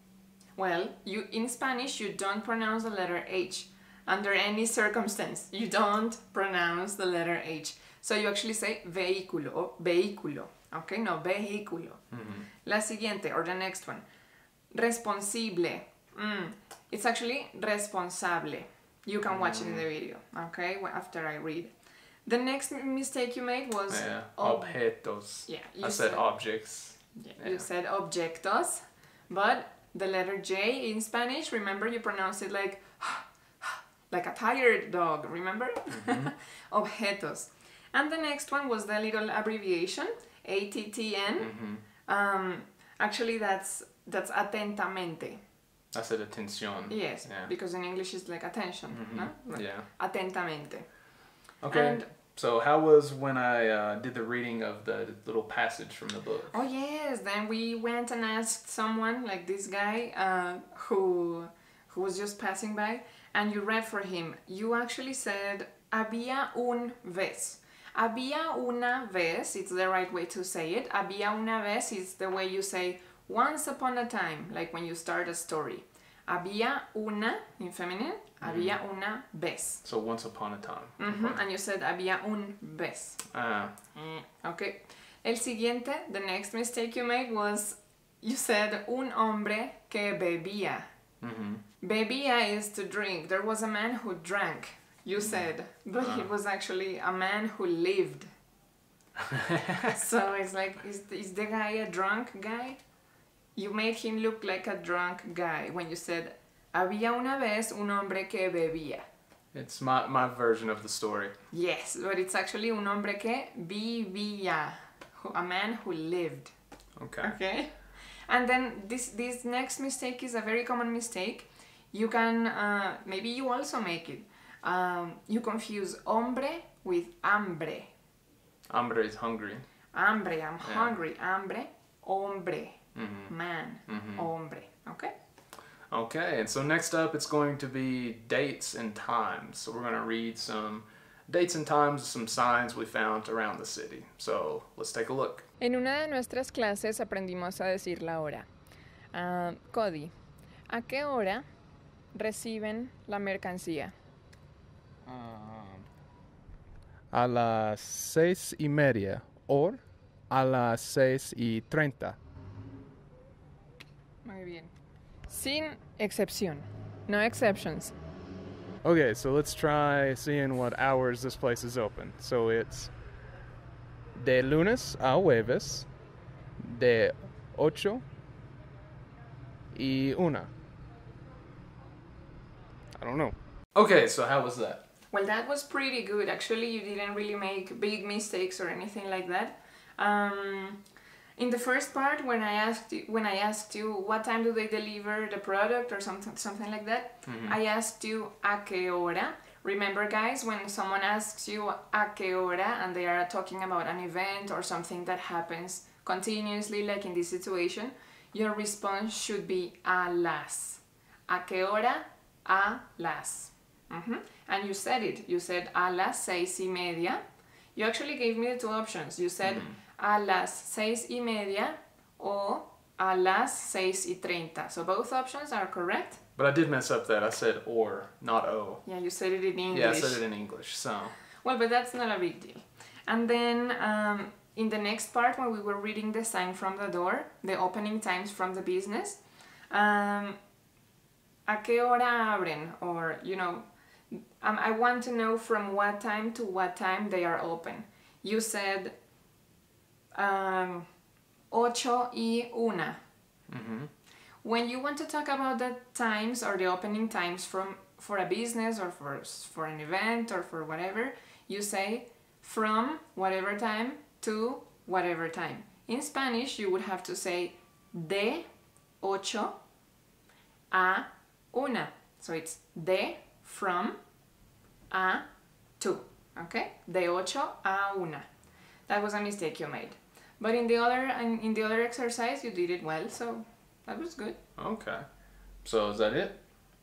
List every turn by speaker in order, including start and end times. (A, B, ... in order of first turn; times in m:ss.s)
0:00.6-0:12.0 A
0:12.1-0:12.5 B
0:12.6-0:14.0 A
0:14.7-0:21.7 A
0:19.3-0:19.8 B
0:22.2-0:24.8 A
0:23.9-0:27.6 B
0:25.4-0:26.3 A
0:27.1-0:45.4 A
0:35.9-0:36.3 B
0:41.4-0:41.8 B
0:45.9-0:47.5 B
0:46.9-0:50.8 A
0:48.9-0:49.9 B
0:51.6-0:56.5 B
0:51.7-0:52.1 A
0:56.5-1:19.8 A
1:18.4-1:18.8 B
1:19.8-1:21.4 B
1:21.0-1:23.2 A
1:23.3-1:23.7 B
1:23.9-1:30.9 A
1:31.2-1:31.6 B
1:31.8-1:38.3 A
1:36.0-1:36.3 B
1:39.3-1:40.0 B
1:39.9-1:42.8 A
1:43.6-1:49.0 A
1:49.5-1:51.4 B
1:51.5-1:56.5 A
1:57.0-1:57.4 B
1:57.2-2:07.9 A
2:08.7-2:09.7 B
2:09.9-2:15.1 A
2:10.6-2:11.0 B
2:12.9-2:13.3 B
2:13.9-2:14.3 B
2:15.9-2:25.5 B
2:25.6-2:28.5 A
2:29.1-2:30.1 A
2:30.7-2:31.4 A
2:32.1-2:33.9 A
2:35.0-2:35.8 C
2:37.1-2:42.2 C
2:44.2-2:44.7 A
2:45.3-2:47.9 A
2:48.8-2:52.9 C
2:54.1-2:55.9 C
2:56.6-2:58.0 C
2:59.7-3:00.5 C
3:02.9-3:03.3 C
3:03.7-3:04.8 B
3:05.1-3:10.8 A
3:11.4-3:37.2 A
3:17.2-3:17.6 B
3:37.7-3:46.2 A
3:39.4-3:39.8 B
3:46.4-3:48.8 B
3:48.8-3:50.2 A
3:49.7-3:51.2 B
3:51.4-4:00.4 A
4:01.5-4:08.9 A
4:10.1-4:10.9 A
4:11.5-4:13.0 A
4:13.5-4:13.9 B
4:14.4-4:28.4 A
4:29.0-4:29.6 A
4:30.7-4:34.0 A
4:34.9-4:35.2 A
4:35.8-4:38.3 A
4:38.9-4:44.4 A
4:44.6-4:45.1 B
4:45.6-4:46.4 B